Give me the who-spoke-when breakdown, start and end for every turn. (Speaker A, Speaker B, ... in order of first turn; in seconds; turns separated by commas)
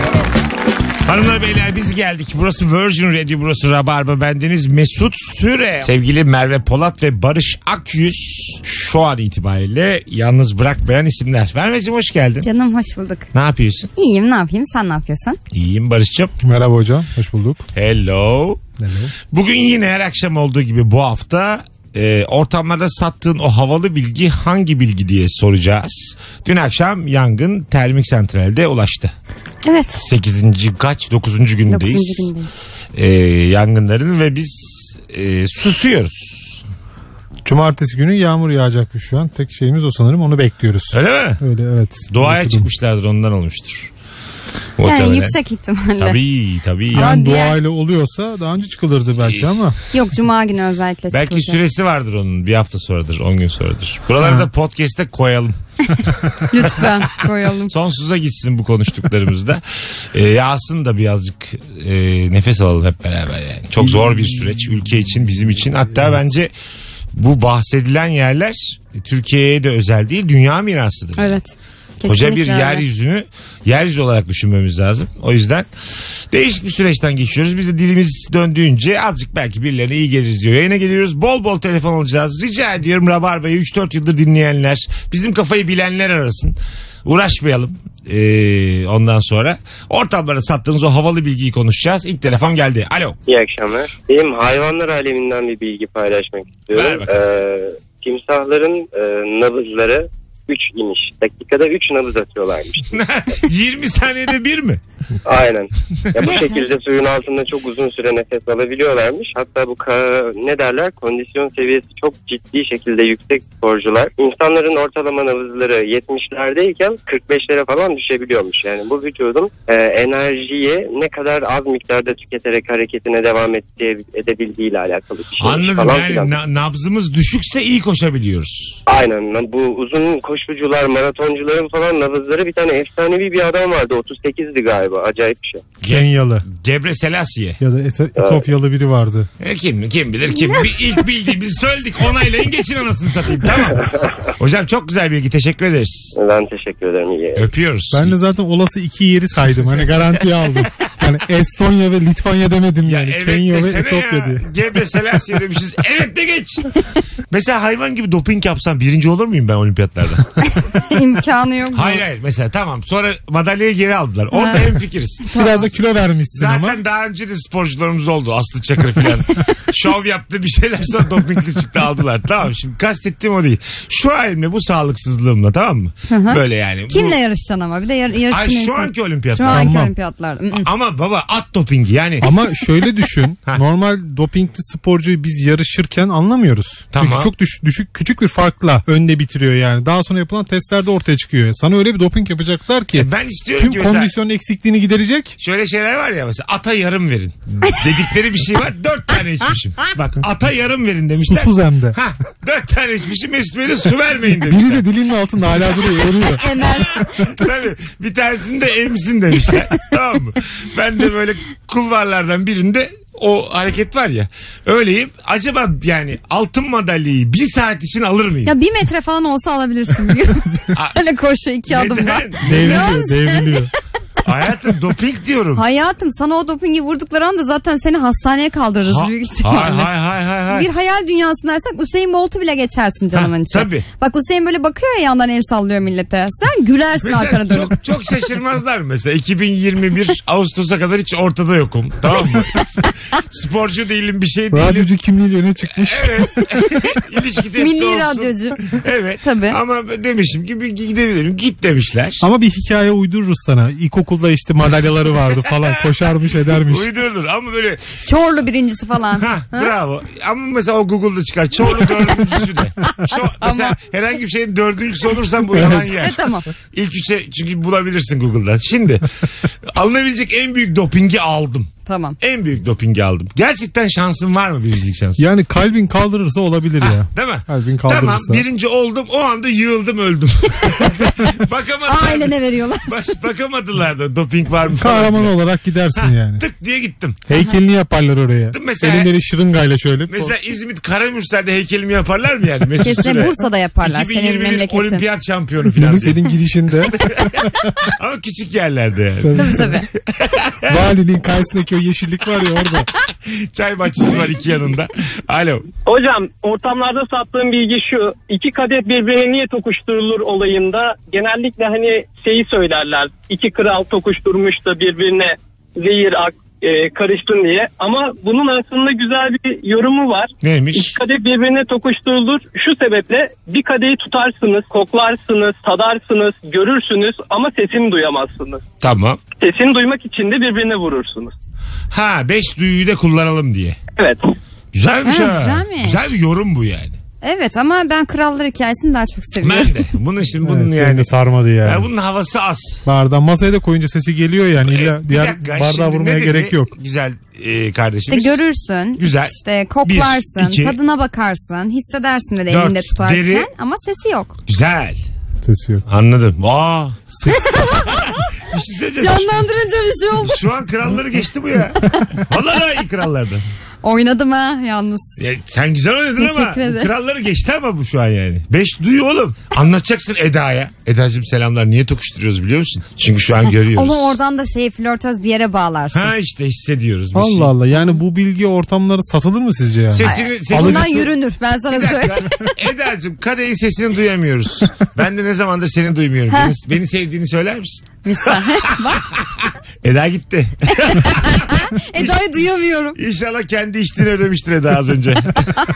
Speaker A: 1.1-12.5, Speaker B: 12.4-13.3, Speaker A: 13.3-13.9, Speaker B: 14.0-15.4, Speaker A: 15.5-16.3, Speaker C: 16.4-17.6, Speaker A: 17.8-18.6, Speaker C: 18.8-19.1, Speaker A: 19.3-29.1, Speaker B: 29.6-30.0, Speaker A: 30.0-32.3, Speaker B: 31.7-32.5, Speaker A: 32.9-36.6, Speaker C: 37.5-42.6, Speaker A: 40.9-41.4, Speaker A: 42.1-43.9, Speaker A: 44.8-45.4, Speaker B: 44.8-46.2, Speaker A: 46.0-47.2, Speaker C: 46.9-49.8, Speaker B: 46.9-47.6, Speaker A: 49.2-49.5, Speaker B: 49.9-51.6, Speaker A: 51.1-55.6, Speaker B: 56.5-57.7, Speaker A: 56.6-57.1, Speaker A: 57.7-66.5, Speaker A: 67.1-71.4, Speaker B: 71.2-72.8, Speaker A: 72.0-75.7, Speaker A: 76.3-93.2, Speaker D: 93.3-103.0, Speaker A: 96.7-97.2, Speaker A: 102.9-104.8, Speaker D: 105.2-126.3, Speaker B: 106.2-106.6, Speaker A: 125.4-128.8, Speaker D: 128.9-135.7, Speaker A: 135.8-137.6, Speaker C: 135.8-136.5, Speaker C: 137.6-139.3, Speaker A: 139.4-146.2, Speaker D: 146.2-147.5, Speaker A: 147.3-148.2, Speaker C: 147.9-154.4, Speaker A: 152.9-156.7, Speaker A: 157.3-160.3, Speaker B: 160.6-162.0, Speaker A: 161.7-165.7, Speaker B: 164.3-164.7, Speaker B: 165.3-165.7, Speaker C: 165.3-166.8, Speaker A: 166.3-177.2, Speaker B: 176.1-180.7, Speaker A: 178.3-179.8, Speaker C: 179.4-179.9, Speaker A: 180.5-182.3, Speaker C: 182.2-195.3, Speaker A: 186.9-187.3, Speaker A: 193.0-194.1, Speaker A: 195.4-204.8, Speaker C: 201.2-202.0, Speaker C: 204.4-206.4, Speaker B: 206.3-207.4, Speaker A: 207.1-218.5, Speaker B: 218.4-223.7, Speaker A: 221.7-222.9, Speaker C: 222.4-223.7, Speaker A: 224.2-225.7, Speaker B: 225.6-229.9, Speaker A: 228.8-230.7, Speaker B: 230.5-237.8, Speaker A: 233.1-233.8, Speaker A: 237.0-244.9, Speaker C: 244.5-246.9, Speaker A: 245.7-252.2, Speaker B: 247.6-248.6, Speaker B: 249.2-249.6, Speaker C: 252.2-256.9, Speaker A: 256.6-258.0, Speaker B: 258.0-259.7, Speaker A: 259.2-269.1, Speaker B: 263.1-263.8, Speaker B: 265.9-266.5, Speaker A: 269.6-275.2, Speaker B: 271.9-272.2, Speaker C: 275.2-278.4, Speaker A: 276.8-285.4, Speaker B: 281.9-283.2, Speaker C: 284.7-286.4, Speaker A: 285.9-287.2, Speaker C: 287.3-290.3, Speaker A: 288.5-289.1, Speaker A: 290.1-296.3, Speaker B: 292.8-295.1, Speaker C: 295.7-297.7, Speaker A: 296.9-297.3, Speaker A: 298.0-300.8, Speaker C: 299.2-299.8, Speaker B: 299.4-299.9, Speaker C: 300.7-302.9, Speaker A: 303.1-305.7, Speaker E: 305.9-328.6, Speaker A: 320.4-321.0, Speaker A: 328.8-329.2, Speaker E: 329.4-331.3, Speaker A: 331.9-333.8, Speaker E: 334.0-334.3, Speaker A: 334.7-337.0, Speaker B: 335.0-336.1, Speaker B: 337.2-339.8, Speaker A: 339.4-341.1, Speaker C: 340.5-341.9, Speaker A: 341.6-342.8, Speaker C: 342.9-346.7, Speaker A: 344.6-348.4, Speaker B: 348.1-354.4, Speaker A: 349.0-350.8, Speaker A: 352.5-353.5, Speaker A: 354.5-355.0, Speaker C: 355.4-355.9, Speaker A: 355.9-357.1, Speaker C: 357.2-357.5, Speaker B: 357.3-358.2, Speaker A: 357.9-359.4, Speaker B: 359.0-360.4, Speaker A: 360.2-363.4, Speaker B: 363.8-365.2, Speaker A: 365.2-374.2, Speaker B: 366.2-366.9, Speaker B: 373.8-376.1, Speaker A: 375.9-377.5, Speaker C: 377.1-381.0, Speaker A: 379.9-381.1, Speaker B: 380.1-382.5, Speaker A: 381.7-392.2, Speaker B: 388.0-389.0, Speaker B: 390.8-393.0, Speaker A: 392.9-395.5